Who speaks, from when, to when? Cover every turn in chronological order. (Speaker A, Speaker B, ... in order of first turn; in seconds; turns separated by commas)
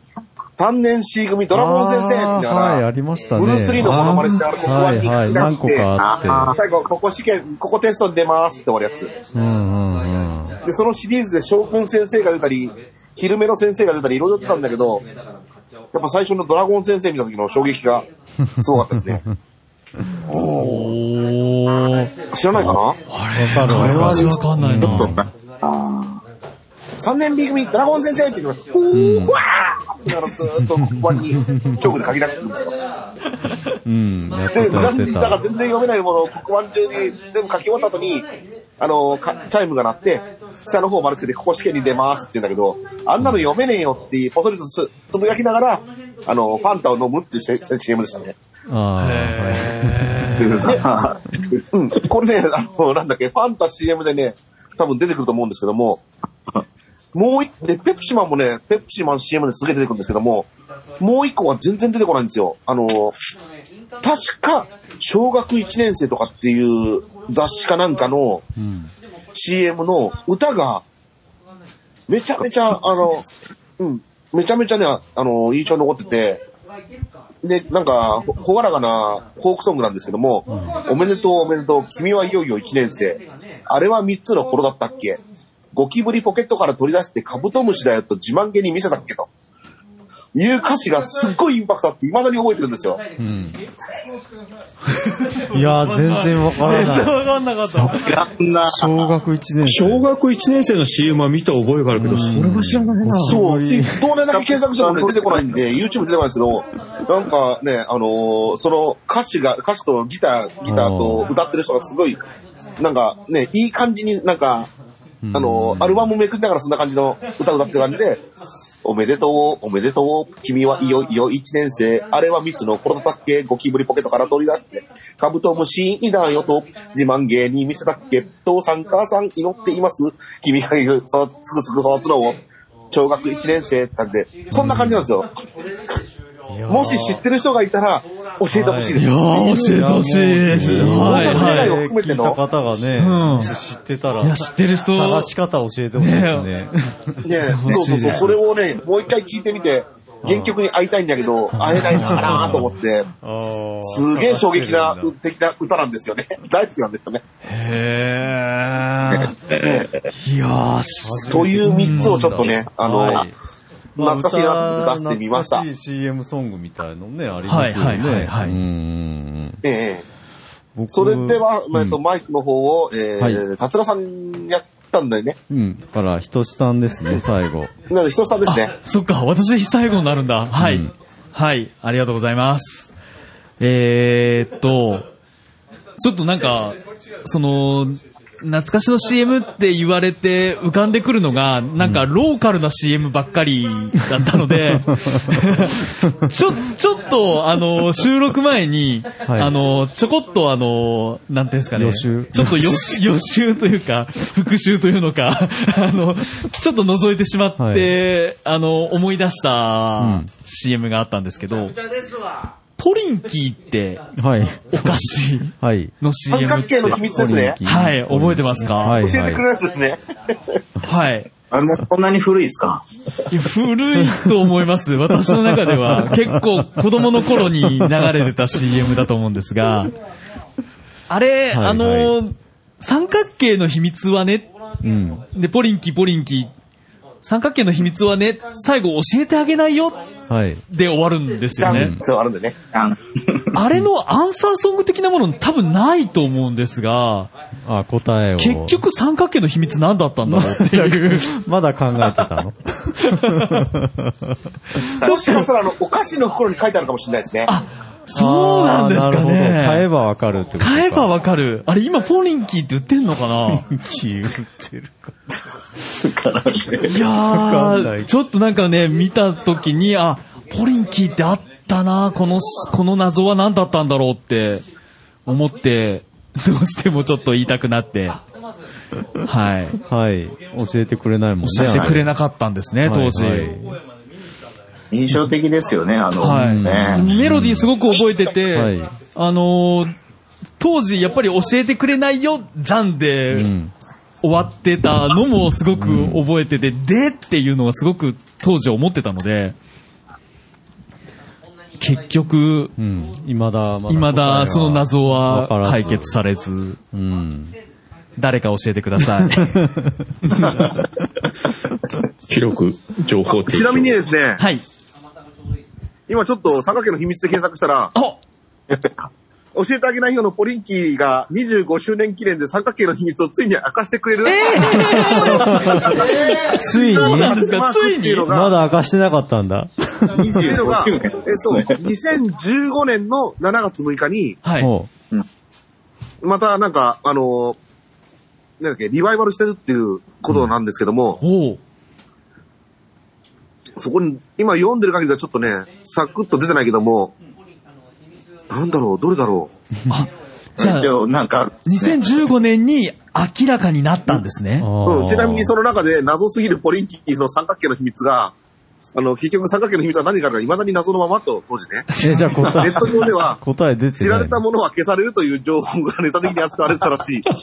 Speaker A: 0.6-2.8, Speaker B: 1.5-6.5, Speaker A: 3.3-5.9, Speaker C: 6.0-6.6, Speaker A: 6.5-9.1, Speaker B: 9.3-10.6, Speaker A: 10.6-15.1, Speaker A: 15.9-18.1, Speaker B: 18.5-19.4, Speaker A: 18.6-19.2, Speaker A: 20.3-20.9, Speaker D: 20.4-22.1, Speaker A: 22.3-23.0, Speaker D: 23.1-25.1, Speaker B: 23.3-25.3, Speaker A: 23.6-25.2, Speaker C: 25.6-26.2, Speaker A: 27.0-32.7, Speaker B: 28.9-29.4, Speaker B: 30.7-32.0, Speaker B: 33.8-35.4, Speaker A: 34.5-38.2, Speaker A: 38.8-48.3, Speaker B: 48.7-50.6, Speaker D: 49.0-50.8, Speaker C: 50.4-51.6, Speaker A: 50.5-50.8, Speaker A: 51.7-56.0, Speaker A: 57.1-60.5, Speaker A: 61.0-63.1, Speaker A: 64.0-68.5, Speaker B: 68.6-68.9, Speaker A: 69.3-70.8, Speaker A: 72.1-73.2, Speaker A: 73.8-76.4, Speaker A: 77.4-85.2, Speaker B: 80.5-80.8, Speaker A: 85.7-89.3, Speaker A: 90.3-93.0, Speaker B: 93.2-93.6, Speaker D: 95.2-98.1, Speaker B: 95.5-97.2, Speaker C: 97.9-99.1, Speaker B: 98.7-100.1, Speaker E: 99.6-103.4, Speaker B: 101.9-104.1, Speaker A: 103.2-112.2, Speaker C: 104.3-105.6, Speaker B: 110.7-111.3, Speaker A: 112.8-114.7, Speaker B: 115.2-116.1, Speaker A: 115.3-118.2, Speaker A: 118.8-132.4, Speaker A: 132.9-135.4, Speaker B: 134.6-134.9, Speaker D: 134.6-134.9, Speaker D: 136.5-137.2, Speaker A: 136.7-139.8, Speaker B: 138.5-146.7, Speaker D: 138.9-141.8, Speaker A: 140.5-142.4, Speaker D: 143.0-143.5, Speaker D: 144.2-145.3, Speaker D: 146.0-146.5, Speaker A: 147.2-153.1, Speaker D: 147.5-148.3, Speaker B: 147.7-148.2, Speaker B: 150.2-150.5, Speaker D: 151.6-152.7, Speaker B: 151.7-155.1, Speaker A: 153.8-157.2, Speaker D: 157.4-159.3, Speaker C: 159.1-159.9, Speaker A: 159.6-159.9, Speaker D: 160.2-162.5, Speaker B: 161.0-163.3, Speaker A: 161.3-163.2, Speaker B: 163.9-169.6, Speaker A: 164.0-165.6, Speaker D: 167.5-168.6, Speaker A: 169.6-170.0, Speaker B: 170.8-172.0, Speaker A: 170.9-175.4, Speaker B: 173.2-173.4, Speaker B: 175.5-177.7, Speaker A: 177.9-178.7, Speaker D: 178.4-182.9, Speaker B: 180.5-180.9, Speaker D: 183.6-185.1, Speaker D: 186.0-211.8, Speaker B: 191.8-192.1, Speaker B: 194.6-195.3, Speaker B: 199.2-199.6, Speaker B: 201.7-202.9, Speaker B: 207.6-207.9, Speaker B: 210.0-210.3, Speaker D: 212.8-214.1, Speaker B: 214.2-215.9, Speaker D: 214.7-217.0, Speaker A: 216.3-217.6, Speaker B: 216.9-219.4, Speaker D: 217.6-219.0, Speaker A: 219.0-220.0, Speaker D: 220.8-221.3, Speaker C: 221.5-222.8, Speaker D: 223.3-229.9, Speaker B: 225.3-226.7, Speaker B: 227.2-228.1, Speaker D: 231.1-234.5, Speaker B: 231.5-232.2, Speaker B: 234.8-235.2, Speaker D: 235.3-236.5, Speaker D: 237.2-240.0, Speaker B: 240.3-240.6, Speaker D: 240.7-241.9, Speaker A: 241.5-242.6, Speaker B: 241.6-242.0, Speaker C: 242.7-243.4, Speaker D: 243.5-247.3, Speaker B: 247.6-248.8, Speaker D: 248.4-251.3, Speaker B: 250.2-254.4, Speaker D: 253.0-253.6, Speaker C: 255.0-255.4, Speaker D: 255.0-255.5, Speaker A: 255.0-257.5, Speaker D: 257.5-259.9, Speaker B: 258.1-261.1, Speaker D: 260.6-263.6, Speaker B: 263.5-265.1, Speaker C: 266.0-266.9, Speaker D: 266.8-274.6, Speaker B: 267.1-268.1, Speaker D: 275.2-278.2, Speaker D: 279.2-279.8, Speaker B: 279.9-282.1, Speaker D: 281.4-283.5, Speaker C: 281.6-282.0, Speaker B: 282.8-283.8, Speaker C: 284.9-287.1, Speaker D: 286.2-289.9, Speaker B: 286.3-287.7, Speaker B: 288.5-288.9, Speaker D: 290.6-293.5, Speaker B: 293.3-293.7, Speaker D: 294.2-299.5, Speaker B: 295.7-296.3, Speaker D: 301.8-302.7, Speaker B: 302.8-306.2, Speaker D: 303.9-306.8, Speaker B: 306.9-307.6, Speaker D: 308.2-309.6, Speaker B: 309.2-310.3, Speaker E: 312.3-314.1, Speaker A: 313.3-314.4, Speaker D: 314.4-314.6, Speaker A: 316.1-317.9, Speaker D: 317.9-318.2, Speaker C: 318.7-319.0, Speaker A: 319.5-328.5, Speaker D: 324.2-328.3, Speaker B: 325.3-326.0, Speaker B: 326.5-327.4, Speaker B: 328.2-330.6, Speaker C: 330.2-331.8, Speaker A: 330.4-334.4, Speaker D: 334.4-334.7, Speaker B: 334.6-334.9, Speaker A: 336.2-337.6, Speaker A: 338.6-341.2, Speaker D: 341.2-341.6, Speaker A: 343.8-347.1, Speaker A: 348.5-349.5, Speaker D: 349.9-350.9, Speaker C: 350.6-352.0, Speaker D: 351.6-354.7, Speaker B: 354.6-355.5, Speaker A: 354.8-358.3, Speaker A: 358.9-361.9, Speaker D: 361.9-362.7, Speaker B: 362.0-364.4, Speaker A: 362.6-363.4, Speaker A: 364.0-367.2